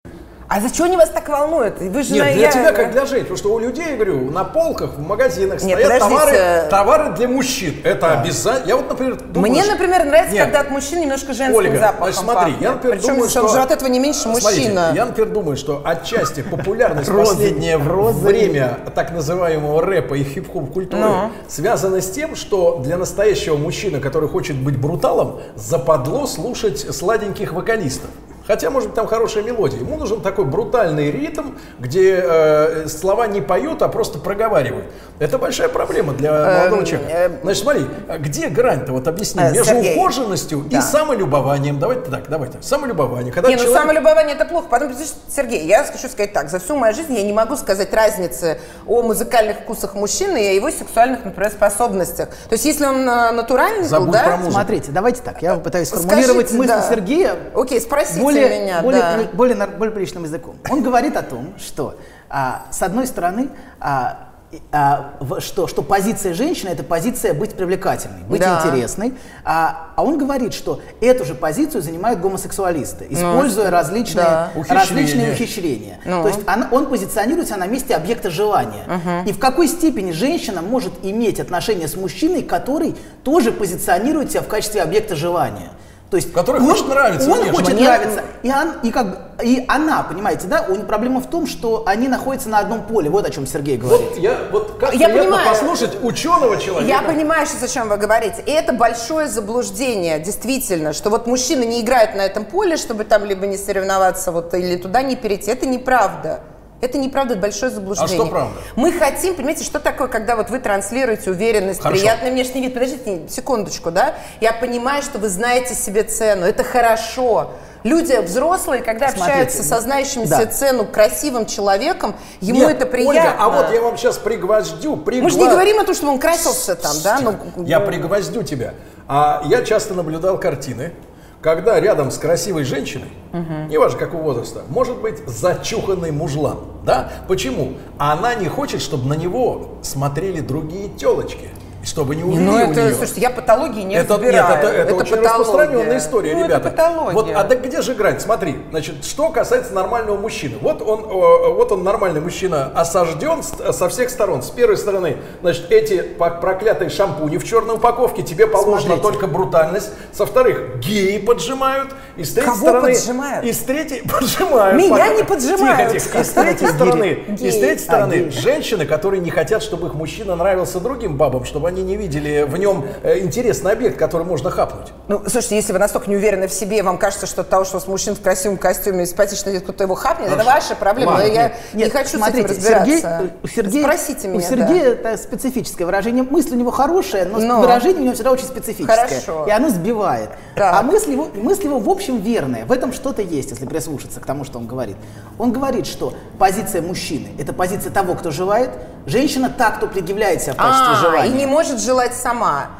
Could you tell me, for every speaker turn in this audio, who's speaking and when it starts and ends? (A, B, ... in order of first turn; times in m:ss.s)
0:00.5-0:03.0 A
0:02.1-0:09.8 B
0:05.6-0:06.8 A
0:09.3-0:15.0 A
0:10.3-0:10.6 B
0:11.4-0:13.7 B
0:14.2-0:43.9 B
0:16.9-0:18.6 C
0:20.9-0:21.4 A
0:36.4-0:37.6 A
0:39.4-0:40.1 A
0:40.7-0:40.9 A
0:43.4-0:54.5 A
0:53.8-0:54.7 B
0:54.4-0:57.5 C
0:55.9-0:57.0 A
0:57.5-0:59.3 A
0:58.1-1:34.2 C
1:08.3-1:08.8 A
1:13.1-1:14.5 A
1:14.6-1:15.4 B
1:16.0-1:16.4 A
1:18.9-1:19.3 A
1:26.3-1:27.9 B
1:27.4-1:28.2 A
1:33.8-1:37.2 B
1:34.8-1:36.0 A
1:36.7-2:03.8 A
1:48.0-1:48.7 B
1:51.8-1:52.2 B
1:59.1-2:00.5 C
2:02.5-2:05.6 B
2:05.2-2:08.1 A
2:06.5-2:13.2 B
2:13.3-2:13.7 A
2:13.7-2:23.1 B
2:22.3-2:27.5 A
2:23.9-2:54.9 B
2:38.6-2:39.2 C
2:42.4-2:43.5 A
2:44.7-2:47.8 A
2:46.5-2:47.0 C
2:47.8-2:48.4 C
2:55.1-3:04.8 A
3:00.3-3:01.5 B
3:01.1-3:21.5 C
3:07.3-3:07.8 A
3:08.8-3:09.5 A
3:10.6-3:10.9 A
3:20.6-3:22.7 A